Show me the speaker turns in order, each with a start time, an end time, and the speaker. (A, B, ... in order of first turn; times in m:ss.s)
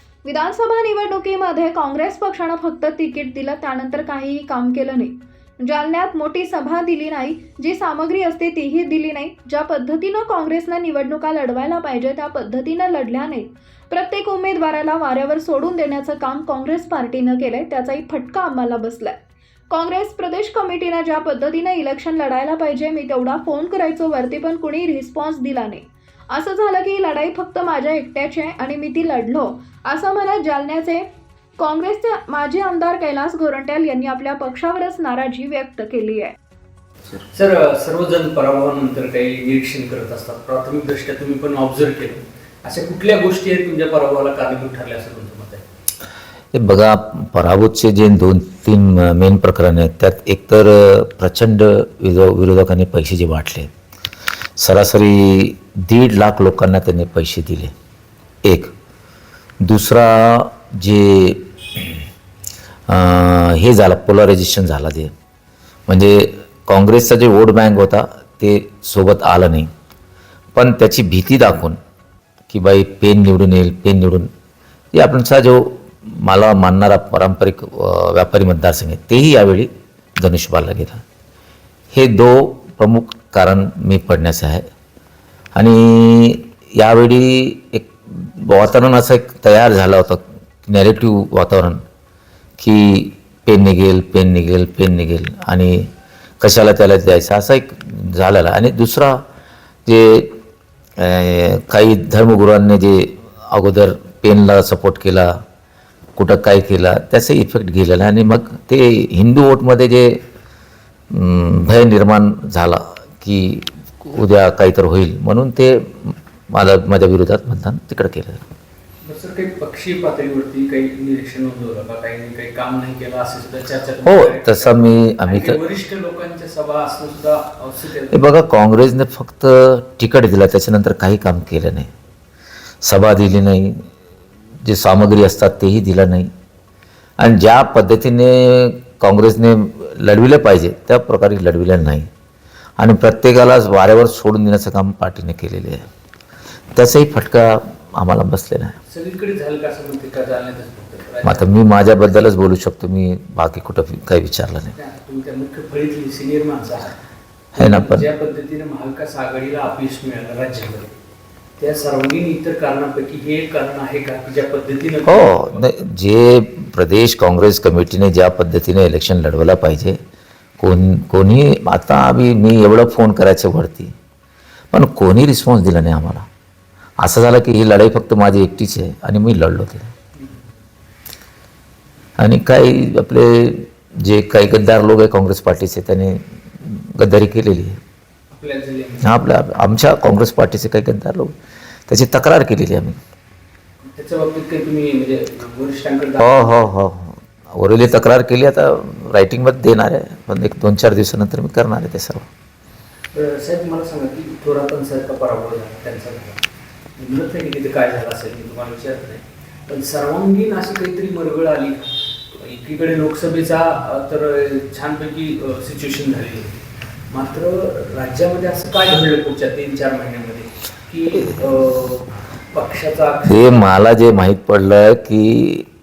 0:00.2-0:19.2 A
0:19.7-0:31.0 A
0:31.6-0:36.3 A
0:37.1-0:45.6 B
0:46.5-0:53.7 C
0:54.6-0:57.7 C
0:58.4-0:58.7 C
0:59.6-1:02.0 C
1:02.9-1:05.1 C
1:05.9-1:09.7 C
1:10.5-1:11.8 C
1:12.5-1:14.3 C
1:14.9-1:21.0 C
1:21.9-1:24.6 C
1:25.5-1:31.8 C
1:32.6-1:35.8 C
1:36.4-1:39.2 C
1:39.8-1:40.3 C
1:41.0-1:45.3 C
1:46.2-1:50.2 C
1:51.1-1:58.5 C
1:59.0-2:08.2 B
2:04.0-2:05.6 C
2:08.1-2:11.9 C
2:12.8-2:13.8 C
2:14.6-2:16.3 C
2:17.2-2:22.1 C
2:22.8-2:25.8 C
2:26.7-2:28.8 C
2:28.9-2:32.1 B
2:31.2-2:34.7 C
2:34.7-2:37.0 B
2:37.5-2:38.0 C
2:37.6-2:40.9 B
2:41.6-2:45.7 B
2:45.0-2:50.0 C
2:50.6-2:53.9 C
2:54.7-2:56.2 C
2:57.0-2:59.9 C
3:00.2-3:00.4 B
3:02.2-3:07.8 C
3:08.3-3:09.2 B
3:09.0-3:11.4 C
3:11.9-3:13.0 C
3:13.9-3:16.7 B
3:16.2-3:22.3 C
3:23.1-3:26.4 B
3:27.0-3:36.5 B
3:37.1-3:43.7 B
3:43.2-3:45.7 C